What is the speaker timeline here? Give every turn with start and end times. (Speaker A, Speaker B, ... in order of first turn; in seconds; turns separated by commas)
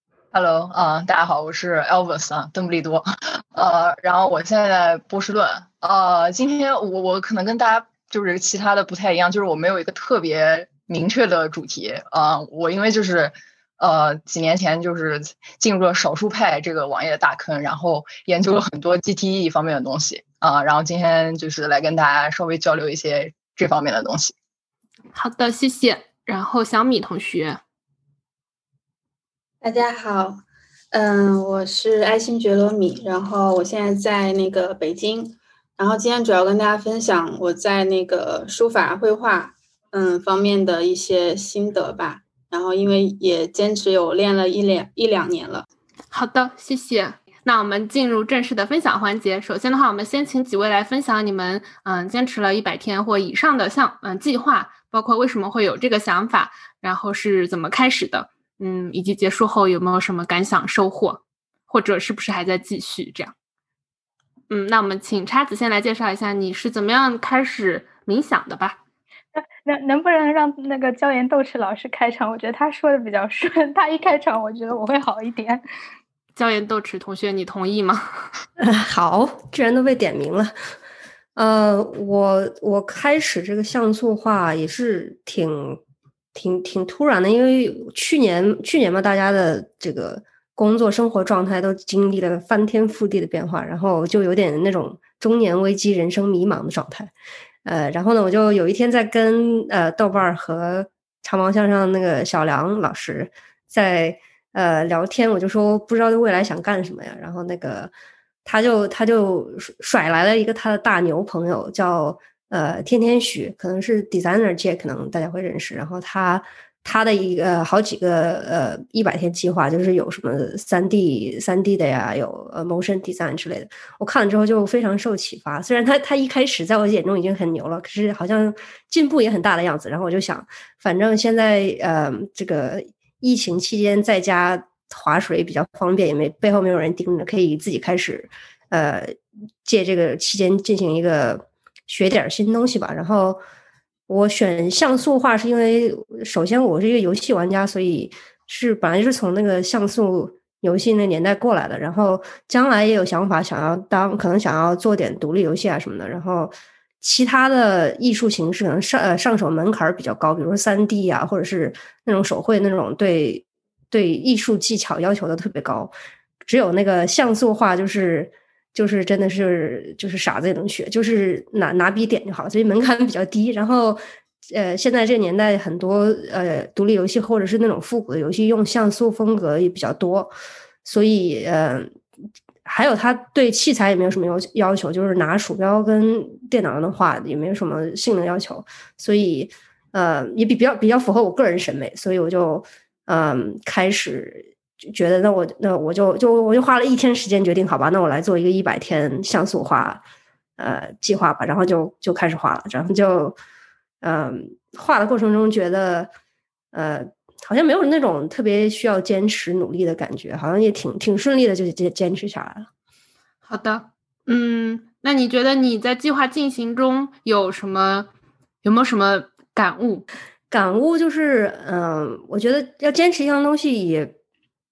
Speaker A: 0.3-24.3, Speaker B: 25.1-27.6, Speaker C: 29.6-45.6, Speaker B: 46.1-63.3, Speaker B: 64.5-68.8, Speaker D: 69.4-75.6, Speaker B: 76.4-78.3, Speaker E: 78.6-80.5, Speaker E: 81.4-85.8, Speaker E: 86.3-97.1, Speaker E: 97.7-107.9, Speaker E: 108.5-143.4, Speaker E: 144.1-165.9, Speaker E: 166.4-180.3, Speaker E: 180.8-181.9, Speaker E: 182.7-200.0, Speaker E: 200.6-203.4, Speaker E: 204.0-206.1, Speaker E: 206.7-212.7, Speaker B: 213.5-218.1, Speaker B: 218.6-220.1, Speaker E: 220.5-224.2